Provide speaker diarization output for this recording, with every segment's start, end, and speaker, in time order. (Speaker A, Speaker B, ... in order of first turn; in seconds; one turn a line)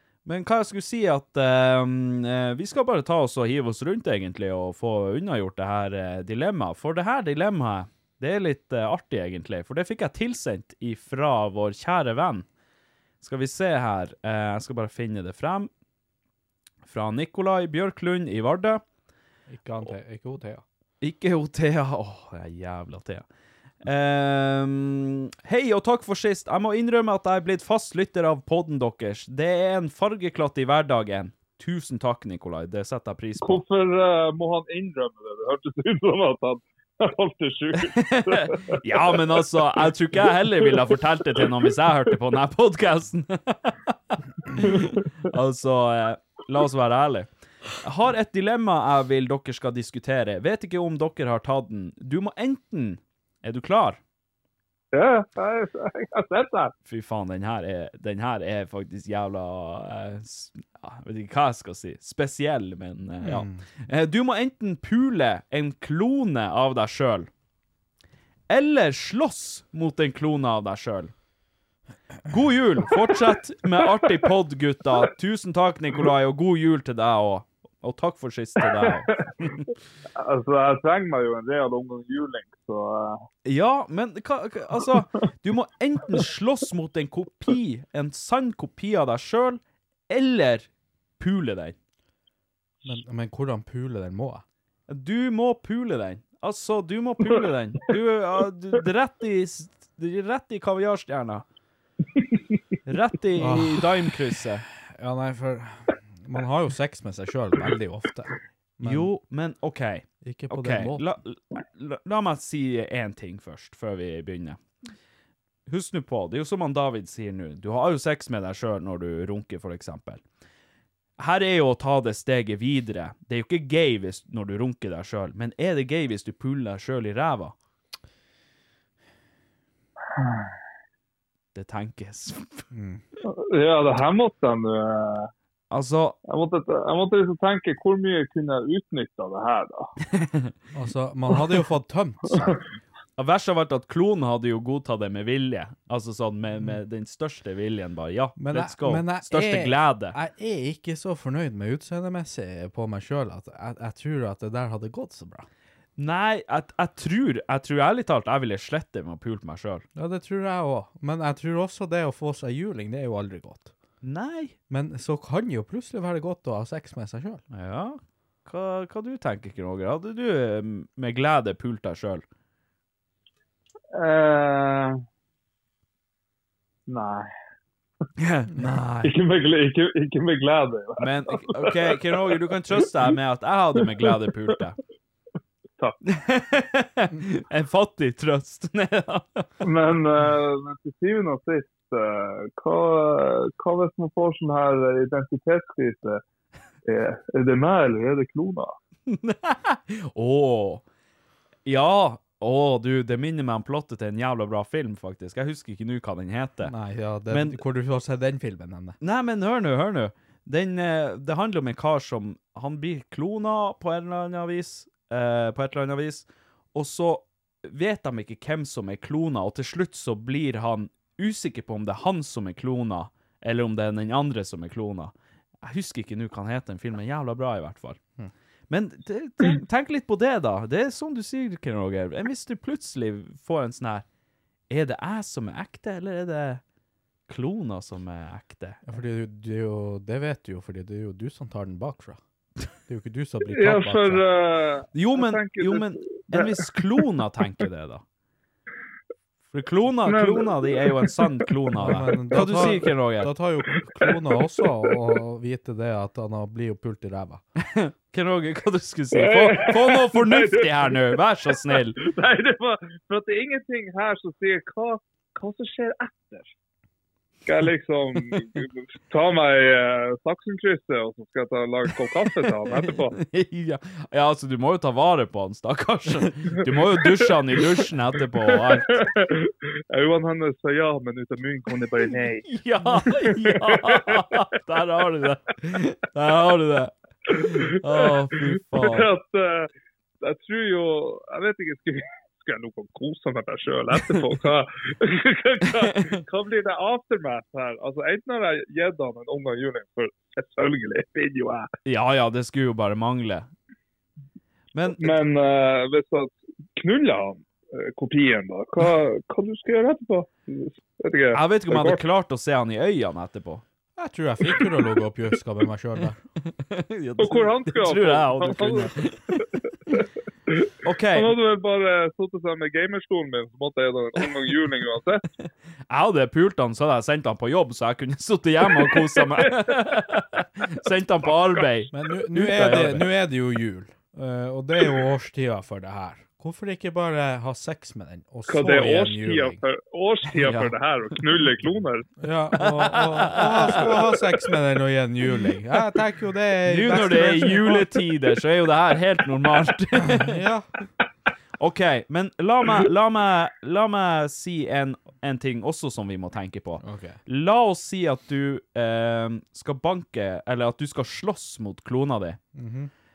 Speaker A: 0.2-12.4
Speaker A: 13.2-15.7
Speaker A: 16.9-18.8
Speaker B: 19.5-20.6
Speaker A: 21.0-23.2
Speaker A: 23.8-33.6
Speaker C: 33.4-39.1
Speaker A: 37.9-54.0
Speaker C: 54.9-56.7
Speaker A: 56.9-67.3
Speaker B: 63.2-63.6
Speaker A: 68.5-71.1
Speaker A: 72.3-79.6
Speaker C: 78.9-79.2
Speaker C: 80.2-83.2
Speaker A: 83.4-90.7
Speaker A: 91.2-91.8
Speaker B: 92.8-94.4
Speaker A: 94.9-101.4
Speaker A: 102.8-104.7
Speaker B: 103.4-103.9
Speaker B: 104.9-109.1
Speaker A: 108.8-114.6
Speaker B: 110.2-111.0
Speaker A: 115.7-120.2
Speaker A: 121.2-127.5
Speaker C: 130.1-130.5
Speaker A: 131.5-132.7
Speaker B: 132.7-133.0
Speaker C: 133.2-135.3
Speaker A: 135.7-136.2
Speaker C: 136.3-139.9
Speaker A: 140.1-140.5
Speaker B: 140.7-142.6
Speaker A: 143.2-150.2
Speaker B: 148.4-155.5
Speaker A: 156.0-159.8
Speaker B: 159.9-163.7
Speaker A: 164.0-164.5
Speaker B: 164.7-167.4
Speaker A: 167.5-172.2
Speaker C: 173.9-175.0
Speaker C: 176.9-177.3
Speaker A: 178.2-179.1
Speaker C: 179.0-182.8
Speaker A: 181.0-184.8
Speaker C: 183.8-184.1
Speaker A: 186.1-189.5
Speaker C: 189.6-196.2
Speaker C: 196.8-198.7
Speaker A: 199.1-200.8
Speaker A: 201.7-206.7
Speaker B: 206.6-209.0
Speaker A: 207.3-207.6
Speaker A: 209.0-228.0
Speaker A: 228.7-234.0
Speaker A: 234.7-236.6
Speaker A: 237.3-238.8
Speaker B: 238.8-242.2
Speaker B: 242.9-244.2
Speaker C: 243.5-246.7
Speaker A: 244.9-248.0
Speaker A: 249.5-253.3
Speaker C: 250.0-251.5
Speaker B: 251.8-257.4
Speaker C: 253.7-254.7
Speaker A: 257.7-262.0
Speaker C: 259.1-266.5
Speaker C: 267.4-273.1
Speaker A: 272.9-279.0
Speaker C: 277.1-277.3
Speaker C: 278.5-284.3
Speaker A: 282.5-289.1
Speaker C: 287.3-289.7
Speaker C: 290.2-301.7
Speaker A: 301.8-303.5
Speaker A: 304.7-305.2
Speaker C: 304.9-312.0
Speaker A: 311.3-313.6
Speaker B: 314.0-316.2
Speaker A: 316.4-319.9
Speaker C: 317.2-325.2
Speaker A: 320.8-321.4
Speaker A: 325.9-333.1
Speaker B: 331.9-339.6
Speaker C: 338.5-342.1
Speaker A: 340.4-340.7
Speaker B: 342.2-347.9
Speaker A: 342.6-344.1
Speaker A: 346.6-350.4
Speaker B: 350.1-350.7
Speaker A: 351.6-362.4
Speaker B: 356.8-357.2
Speaker B: 362.5-362.9